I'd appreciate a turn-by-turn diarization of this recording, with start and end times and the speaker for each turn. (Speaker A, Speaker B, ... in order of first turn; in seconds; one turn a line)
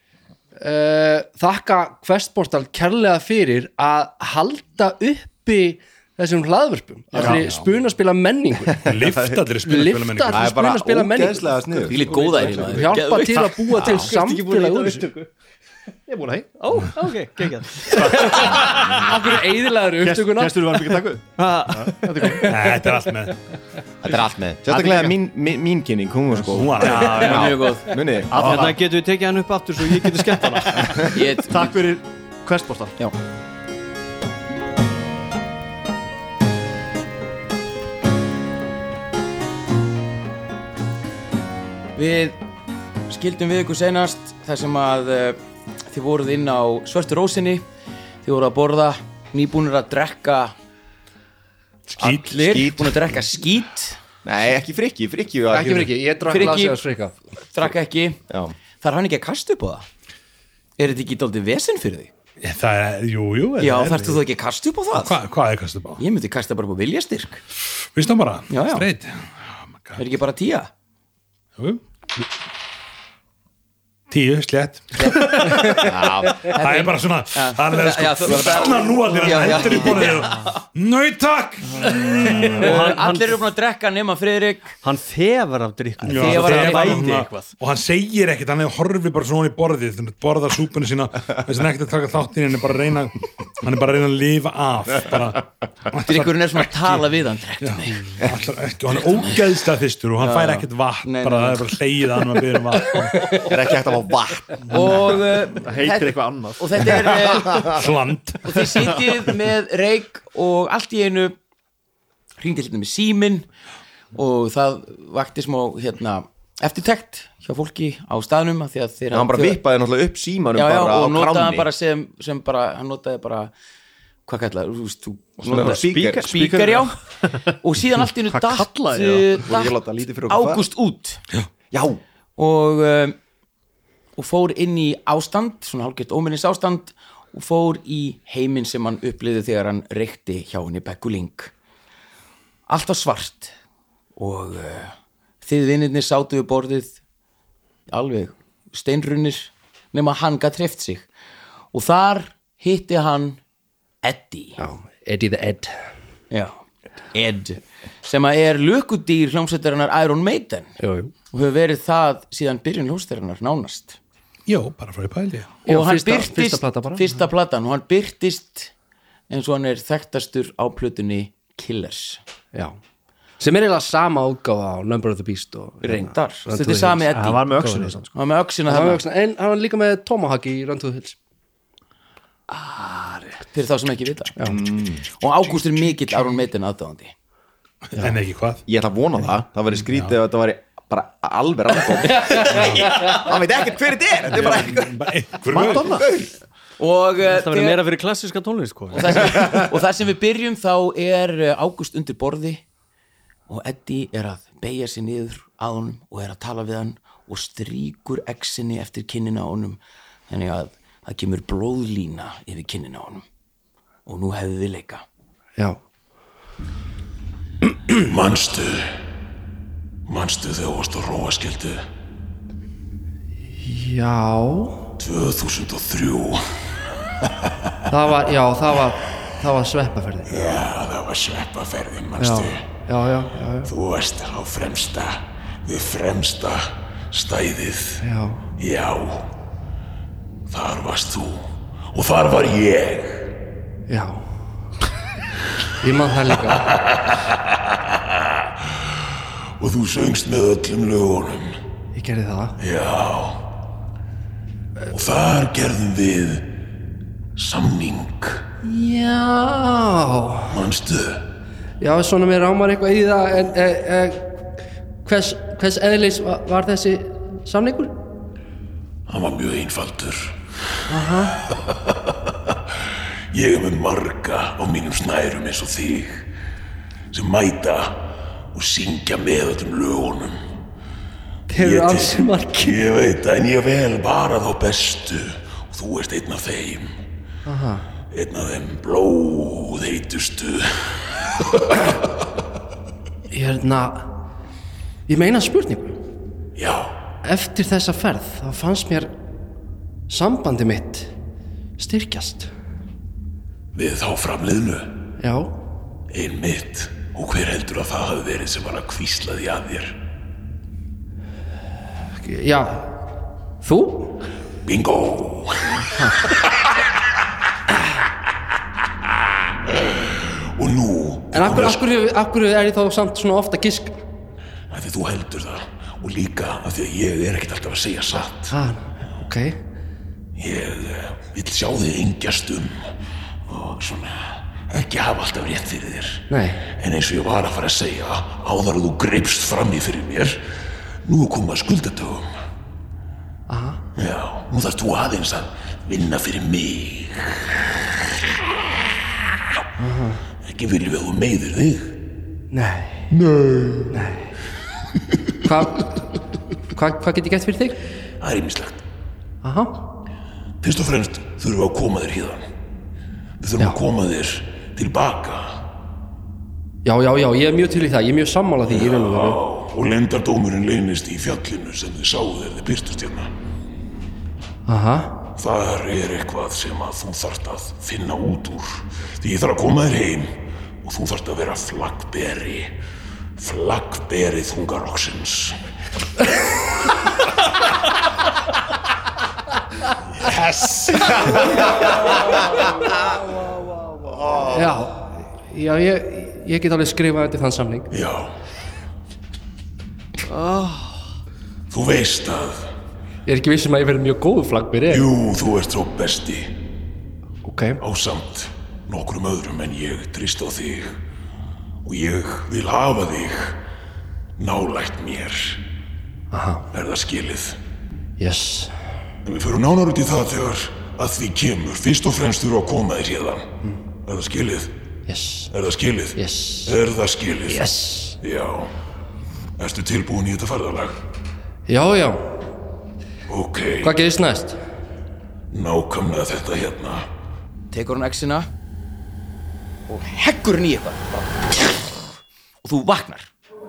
Speaker A: 0.6-8.8
Speaker B: 7.1-7.5
Speaker C: 7.2-7.5
Speaker C: 8.8-9.4
Speaker D: 8.8-10.6
Speaker A: 9.6-12.0
Speaker C: 10.3-12.1
Speaker E: 11.9-13.5
Speaker F: 12.0-13.0
Speaker A: 12.6-15.1
Speaker F: 13.7-15.3
Speaker B: 16.1-16.5
Speaker F: 16.6-19.0
Speaker B: 17.9-18.8
Speaker A: 17.9-20.8
Speaker B: 20.0-22.6
Speaker F: 21.4-22.5
Speaker D: 22.4-23.4
Speaker C: 24.0-28.6
Speaker B: 24.7-25.2
Speaker D: 26.5-27.4
Speaker F: 26.8-27.8
Speaker E: 26.9-28.0
Speaker B: 28.3-28.8
Speaker F: 28.3-31.1
Speaker B: 30.0-33.0
Speaker E: 31.1-31.7
Speaker E: 42.0-42.4
Speaker E: 43.1-45.4
Speaker E: 45.9-47.6
Speaker E: 48.2-50.5
Speaker D: 51.9-52.3
Speaker C: 52.0-53.1
Speaker E: 52.0-54.0
Speaker C: 54.2-55.9
Speaker A: 55.5-57.2
Speaker E: 56.2-56.8
Speaker E: 57.5-58.2
Speaker E: 58.8-59.9
Speaker E: 60.8-62.1
Speaker D: 62.4-64.2
Speaker E: 63.6-65.2
Speaker D: 65.0-66.0
Speaker E: 66.0-67.4
Speaker D: 67.9-70.0
Speaker E: 68.5-68.9
Speaker E: 70.0-70.7
Speaker D: 71.6-72.3
Speaker D: 74.1-75.8
Speaker E: 74.9-80.6
Speaker C: 75.7-76.5
Speaker D: 76.4-82.5
Speaker E: 81.8-84.8
Speaker F: 82.0-83.4
Speaker F: 84.8-87.5
Speaker D: 86.0-97.0
Speaker E: 86.1-87.2
Speaker E: 96.0-98.2
Speaker D: 97.6-103.2
Speaker E: 98.9-99.6
Speaker E: 100.2-101.8
Speaker E: 102.8-103.5
Speaker C: 103.5-104.9
Speaker E: 104.6-107.8
Speaker B: 105.6-107.0
Speaker D: 107.6-109.2
Speaker E: 108.4-111.3
Speaker E: 112.4-113.5
Speaker E: 114.1-119.6
Speaker C: 119.1-121.7
Speaker E: 120.5-123.5
Speaker E: 124.2-127.0
Speaker C: 125.4-126.3
Speaker F: 125.5-126.8
Speaker B: 126.3-127.5
Speaker E: 127.6-129.8
Speaker B: 128.3-129.4
Speaker C: 129.4-130.7
Speaker E: 130.3-131.2
Speaker C: 131.7-132.0
Speaker E: 132.4-133.2
Speaker E: 134.2-141.5
Speaker E: 142.7-143.5
Speaker E: 144.2-147.0
Speaker E: 147.9-151.1
Speaker E: 151.7-153.4
Speaker E: 154.0-154.6
Speaker A: 154.6-155.8
Speaker E: 156.3-156.6
Speaker E: 157.1-160.8
Speaker A: 160.8-161.1
Speaker E: 161.3-164.0
Speaker D: 164.5-165.6
Speaker E: 165.6-168.7
Speaker A: 165.7-167.2
Speaker E: 169.3-172.2
Speaker A: 173.4-177.0
Speaker E: 175.8-177.6
Speaker B: 176.8-178.1
Speaker E: 178.1-179.0
Speaker A: 178.7-181.2
Speaker B: 182.5-183.2
Speaker E: 183.5-184.5
Speaker C: 184.4-185.1
Speaker E: 185.1-187.1
Speaker D: 187.9-188.6
Speaker C: 188.7-196.3
Speaker E: 192.1-193.1
Speaker D: 192.5-192.8
Speaker D: 194.3-196.0
Speaker B: 195.5-196.1
Speaker E: 196.8-197.8
Speaker F: 197.2-199.6
Speaker E: 198.9-202.6
Speaker E: 203.5-213.2
Speaker E: 214.1-215.0
Speaker G: 218.0-219.0
Speaker G: 220.1-221.8
Speaker A: 223.6-224.8
Speaker G: 225.0-226.4
Speaker A: 227.9-230.6
Speaker G: 230.3-232.6
Speaker A: 232.2-233.7
Speaker G: 233.6-238.0
Speaker A: 238.0-238.4
Speaker G: 238.6-239.3
Speaker G: 240.5-243.3
Speaker A: 243.9-244.2
Speaker A: 245.8-246.7
Speaker G: 246.6-251.6
Speaker A: 251.9-252.6
Speaker G: 252.6-253.4
Speaker G: 254.9-256.5
Speaker G: 257.4-258.4
Speaker A: 258.6-260.5
Speaker G: 260.5-261.2
Speaker A: 261.8-264.3
Speaker A: 265.0-267.9
Speaker G: 269.1-270.4
Speaker A: 270.9-271.4
Speaker G: 272.1-272.6
Speaker G: 273.3-276.3
Speaker G: 277.1-280.4
Speaker A: 281.5-282.9
Speaker G: 281.6-287.0
Speaker A: 287.4-287.8
Speaker G: 288.1-291.8
Speaker A: 293.3-294.1
Speaker A: 295.1-296.0
Speaker G: 296.6-296.9
Speaker A: 297.2-299.1
Speaker A: 300.1-301.1
Speaker A: 301.8-302.5
Speaker G: 303.7-304.9
Speaker A: 305.2-305.5
Speaker G: 306.1-310.0
Speaker A: 312.1-312.9
Speaker A: 313.6-314.2
Speaker G: 314.6-316.4
Speaker A: 316.0-316.2
Speaker G: 319.7-321.8
Speaker A: 321.3-324.0
Speaker G: 324.7-328.5
Speaker A: 328.5-329.6
Speaker G: 330.4-332.9
Speaker G: 333.5-340.4
Speaker A: 336.3-336.6
Speaker G: 341.0-342.3
Speaker A: 343.5-343.8
Speaker G: 343.9-347.8
Speaker A: 349.8-350.2
Speaker G: 350.4-352.0
Speaker A: 352.5-353.1
Speaker G: 353.1-353.9
Speaker A: 353.9-354.3
Speaker A: 355.4-356.0
Speaker A: 356.7-357.8
Speaker G: 358.2-358.8
Speaker A: 359.4-359.8
Speaker G: 360.6-362.4
Speaker G: 363.4-365.6
Speaker A: 366.8-369.4
Speaker G: 368.7-373.3
Speaker A: 374.7-375.1
Speaker G: 375.4-382.7
Speaker G: 383.4-385.6
Speaker G: 390.2-391.3
Speaker D: 391.0-391.4
Speaker C: 394.1-394.7
Speaker A: 394.4-397.9
Speaker G: 397.9-398.3
Speaker F: 400.4-400.8
Speaker G: 401.7-402.7
Speaker A: 403.2-405.1
Speaker G: 404.9-406.5
Speaker A: 407.4-407.8
Speaker G: 407.8-411.0
Speaker G: 411.8-413.6
Speaker G: 414.4-415.6
Speaker A: 416.3-416.7
Speaker G: 416.7-417.6
Speaker A: 418.2-418.7
Speaker G: 419.2-423.4
Speaker G: 424.1-424.7
Speaker A: 425.1-425.5
Speaker G: 425.5-428.7
Speaker A: 426.1-426.7
Speaker A: 427.5-428.2
Speaker G: 429.6-431.0
Speaker A: 431.7-432.4
Speaker G: 433.3-433.9
Speaker A: 433.8-434.6
Speaker G: 435.5-437.1
Speaker E: 437.7-438.5
Speaker E: 439.9-442.0
Speaker E: 442.6-443.3